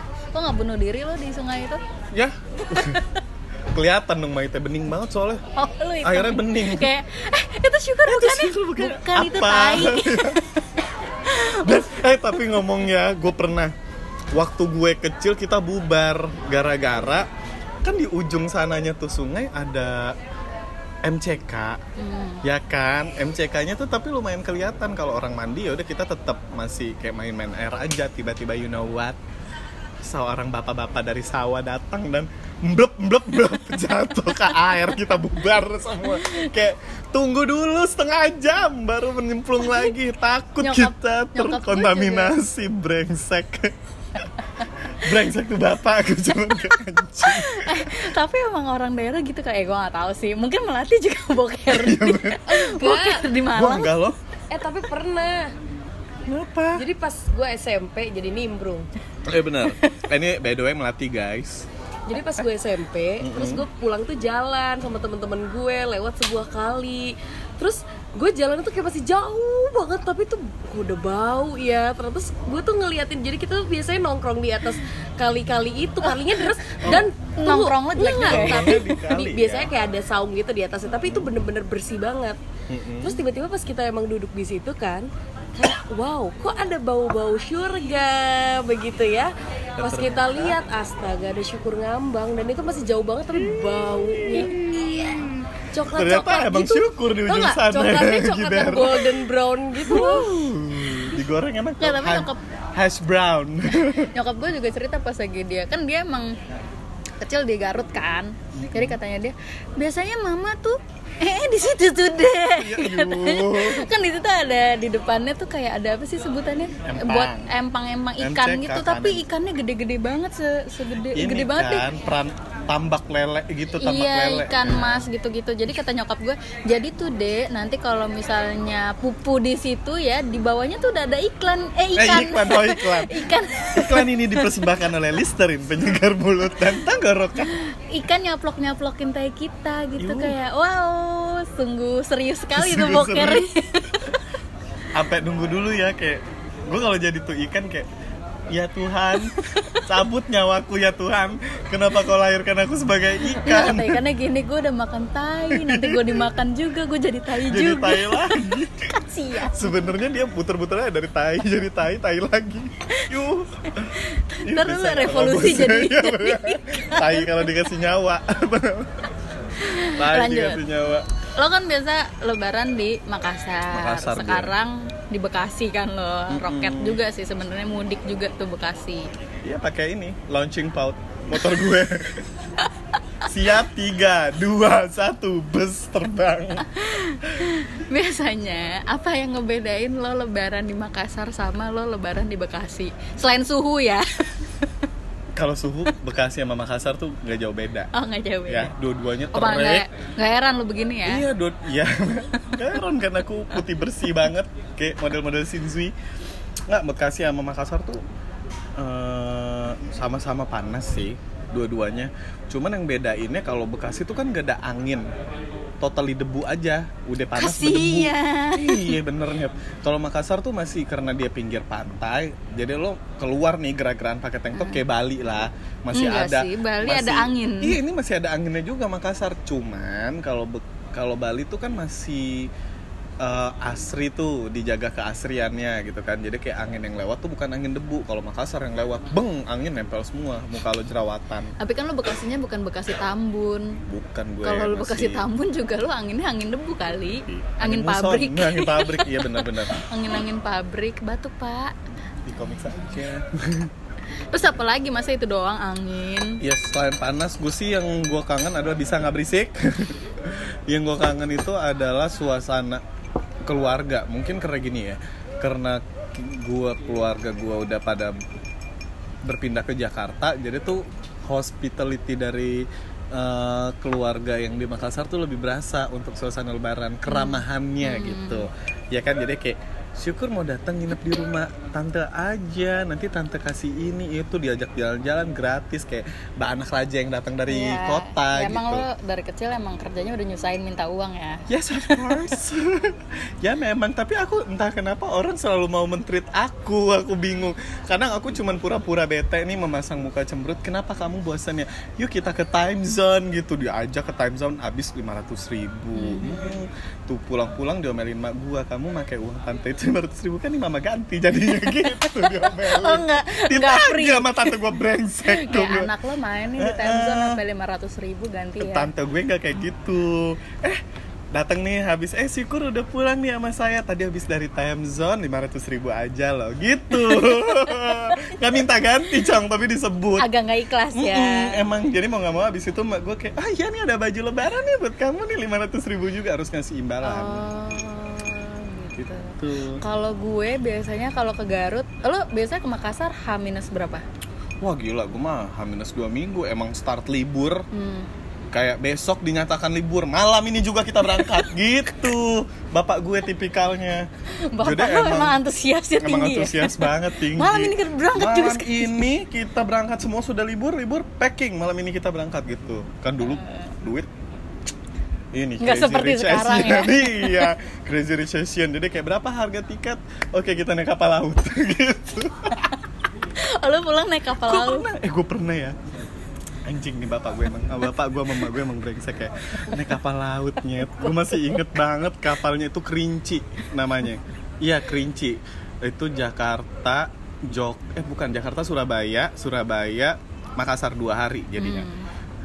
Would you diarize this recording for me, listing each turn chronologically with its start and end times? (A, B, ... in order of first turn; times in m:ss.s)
0:00.3-0:01.8 A
0:02.1-0:03.0 B
0:02.7-0:03.2 A
0:03.7-0:05.4 B
0:05.6-0:10.6 A
0:06.0-0:06.9 B
0:08.1-0:10.4 B
0:11.3-0:11.8 A
0:11.6-0:13.7 B
0:14.3-0:17.3 B
0:17.8-0:20.2 B
0:21.0-0:21.8 B
0:22.0-0:22.4 A
0:22.4-0:29.2 B
0:30.0-0:43.7 B
0:40.6-0:42.3 A
0:45.0-0:48.0 B
0:47.2-0:53.9 A
0:51.7-0:52.5 B
0:52.5-0:53.3 C
0:53.5-0:54.2 B
0:54.5-0:55.5 C
0:56.3-0:56.8 B
0:56.8-0:58.9 C
0:59.3-1:01.7 B
0:59.7-1:00.0 A
1:02.1-1:22.4 C
1:03.2-1:03.7 B
1:16.0-1:18.8 A
1:16.8-1:17.1 B
1:18.2-1:19.7 B
1:21.0-1:21.3 B
1:22.7-1:23.2 B
1:23.0-1:34.6 C
1:29.8-1:30.6 B
1:33.3-1:39.1 B
1:35.7-1:40.3 C
1:39.9-1:44.1 B
1:41.8-1:42.4 A
1:44.1-1:46.3 A
1:47.2-2:01.9 A
1:48.6-1:49.0 B
1:52.6-1:53.9 B
1:56.8-1:57.5 B
1:58.2-1:59.3 B
2:01.1-2:05.1 B
2:03.8-2:14.5 A
2:12.0-2:17.5 B
2:17.5-2:24.2 A
2:20.0-2:20.4 B
2:22.6-2:23.4 B
2:25.0-2:27.9 B
2:28.5-2:34.0 B
2:29.2-2:29.9 A
2:33.3-2:39.9 A
2:35.5-2:36.3 B
2:37.4-2:49.0 B
2:43.7-2:47.5 A
2:49.6-2:50.6 A
2:50.0-2:51.1 B
2:51.4-2:59.1 A
2:53.7-2:54.5 B
2:56.3-2:57.0 B
2:59.4-3:02.3 B
3:03.2-3:06.7 B
3:06.7-3:14.4 A
3:15.4-3:17.9 B
3:17.9-3:18.7 A
3:18.5-3:19.9 B
3:19.3-3:21.2 A
3:21.0-3:25.9 B
3:26.7-3:28.0 B
3:28.8-3:35.1 B
3:35.8-3:52.5 B
3:37.4-3:39.0 A
3:44.5-3:44.8 A
3:45.9-3:47.8 A
3:53.2-4:01.5 B
4:01.6-4:03.8 A
4:03.9-4:05.3 B
4:04.4-4:11.8 A
4:07.3-4:09.8 B
4:12.3-4:13.7 B
4:14.3-4:16.4 A
4:16.4-4:22.8 B
4:23.5-4:28.2 B
4:29.2-4:48.9 B
4:37.1-4:38.5 A
4:47.5-4:52.4 A
4:51.5-5:15.9 B
5:05.9-5:06.5 A
5:11.6-5:14.7 A
5:15.2-5:18.9 A
5:16.6-5:17.4 B
5:18.6-5:20.8 B
5:21.3-5:30.3 B
5:26.9-5:28.4 A
5:30.2-5:31.6 A
5:30.9-5:37.5 B
5:37.0-5:44.0 A
5:39.4-5:39.8 B
5:44.6-5:47.7 B
5:47.7-5:48.1 A
5:48.5-5:55.4 B
5:51.1-5:51.4 A
5:54.4-5:59.0 A
5:56.0-6:04.1 B
6:03.4-6:03.7 A
6:05.3-6:12.7 B
6:05.6-6:07.5 A
6:13.4-6:14.9 A
6:14.4-6:15.8 B
6:16.7-6:31.9 B
6:31.6-6:32.1 A